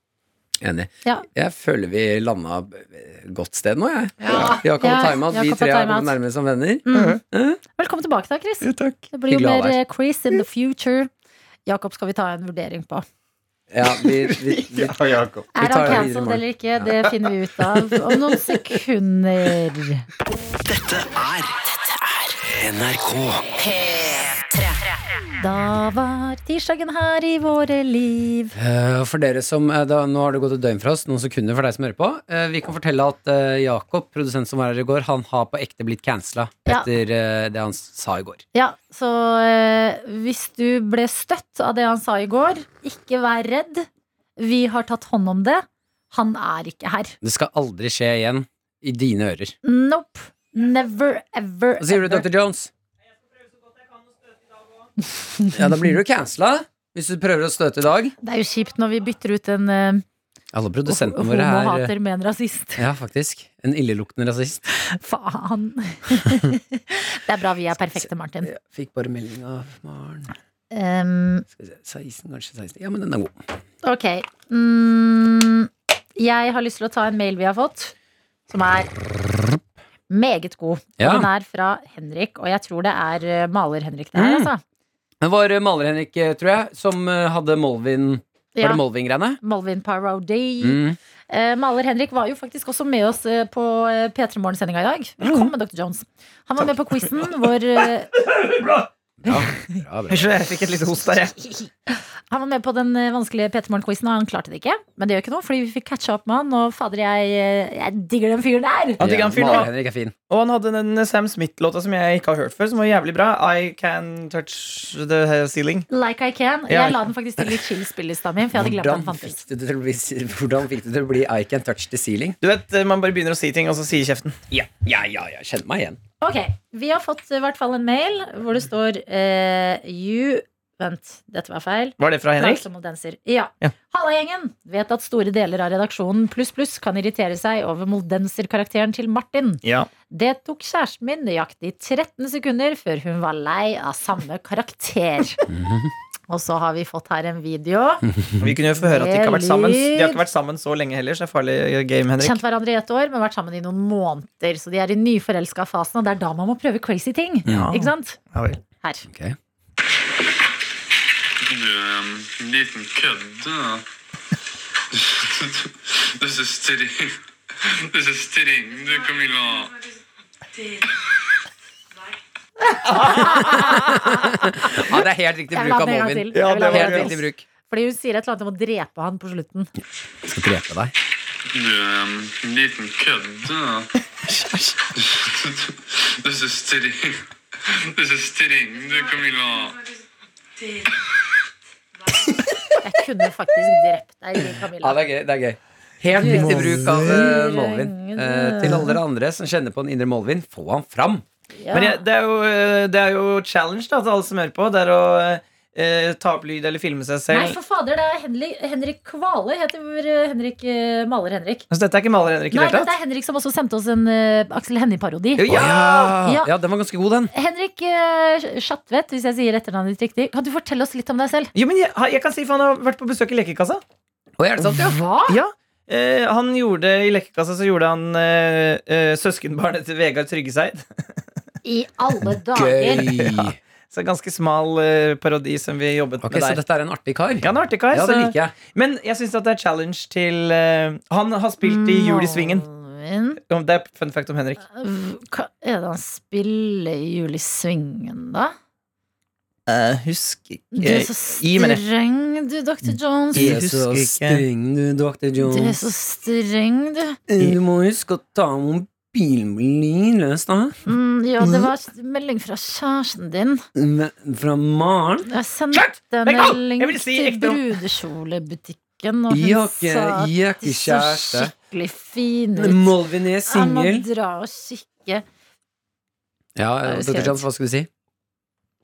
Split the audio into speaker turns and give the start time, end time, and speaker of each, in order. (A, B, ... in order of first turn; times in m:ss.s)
0:00.6-0:07.6 A
0:04.2-0:06.1 B
0:04.3-0:04.6 C
0:06.9-0:07.2 B
0:06.9-0:07.2 C
0:07.8-0:11.1 B
0:08.6-0:09.0 C
0:09.3-0:09.8 A
0:11.7-0:13.0 B
0:13.7-0:15.0 A
0:14.2-0:16.0 C
0:15.6-0:20.1 B
0:15.6-0:16.9 A
0:20.7-0:23.6 A
0:25.4-0:28.6 B
0:28.6-0:38.4 A
0:38.5-0:47.2 B
0:47.2-0:49.6 A
0:49.6-0:52.3 B
0:51.8-0:52.7 A
0:55.2-0:55.6 B
0:55.5-0:58.1 A
0:58.2-1:00.0 B
1:00.5-1:01.9 A
1:00.9-1:02.8 B
1:02.8-1:04.6 A
1:04.7-1:08.5 B
1:08.0-1:10.3 A
1:10.7-1:11.5 B
1:11.6-1:13.4 A
1:13.8-1:17.9 B
1:18.5-1:18.9 B
1:20.1-1:24.6 B
1:21.0-1:21.3 A
1:24.1-1:24.5 A
1:25.2-1:29.4 A
1:28.6-1:28.8 B
1:29.4-1:38.1 B
1:30.6-1:31.0 A
1:38.2-1:38.9 D
1:39.2-1:40.3 A
1:40.1-1:41.5 D
1:41.9-1:49.0 B
1:49.0-1:49.7 D
1:49.0-1:50.1 A
1:50.3-1:55.9 D
1:55.9-1:59.4 B
1:56.7-1:57.0 D
1:58.5-2:02.4 A
2:02.4-2:04.4 D
2:04.5-2:06.0 A
2:06.2-2:25.4 B
2:12.0-2:12.6 D
2:19.6-2:19.9 D
2:25.5-2:25.9 A
2:26.3-2:28.0 B
2:28.1-2:28.5 A
2:28.4-2:32.4 D
2:28.8-2:30.2 B
2:32.2-2:38.2 B
2:37.5-2:37.7 A
2:37.5-2:38.6 D
2:39.1-2:39.4 A
2:41.4-2:43.8 E
2:44.9-2:49.8 E
2:52.7-2:53.9 B
2:53.1-2:53.7 D
2:53.4-2:57.4 A
2:55.5-2:59.7 B
2:56.4-2:57.1 D
3:00.2-3:00.9 A
3:01.5-3:03.9 E
3:04.3-3:04.8 A
3:05.0-3:09.8 E
3:12.8-3:15.0 B
3:14.8-3:21.2 A
3:16.2-3:19.0 B
3:21.6-3:22.0 B
3:21.7-3:27.6 D
3:27.3-3:31.6 B
3:31.7-3:32.9 D
3:32.5-3:36.5 B
3:35.4-3:37.3 A
3:37.3-3:41.5 B
3:41.6-3:43.8 D
3:44.4-3:45.0 A
3:44.7-3:45.4 B
3:45.3-3:50.8 D
3:51.6-3:53.1 B
3:52.5-3:53.6 A
3:53.1-3:56.6 D
3:56.2-3:58.5 A
3:57.4-4:02.6 D
4:01.6-4:03.4 B
4:03.5-4:04.6 D
4:04.7-4:08.5 B
4:09.7-4:11.8 D
4:10.8-4:13.6 B
4:13.3-4:14.4 D
4:13.3-4:15.8 A
4:15.4-4:17.2 B
4:17.3-4:20.8 A
4:20.9-4:23.6 B
4:23.8-4:25.3 A
4:25.3-4:32.9 B
4:26.2-4:27.8 D
4:29.3-4:31.5 A
4:32.6-4:34.1 A
4:33.4-4:35.2 B
4:36.6-4:37.9 A
4:36.8-4:37.4 B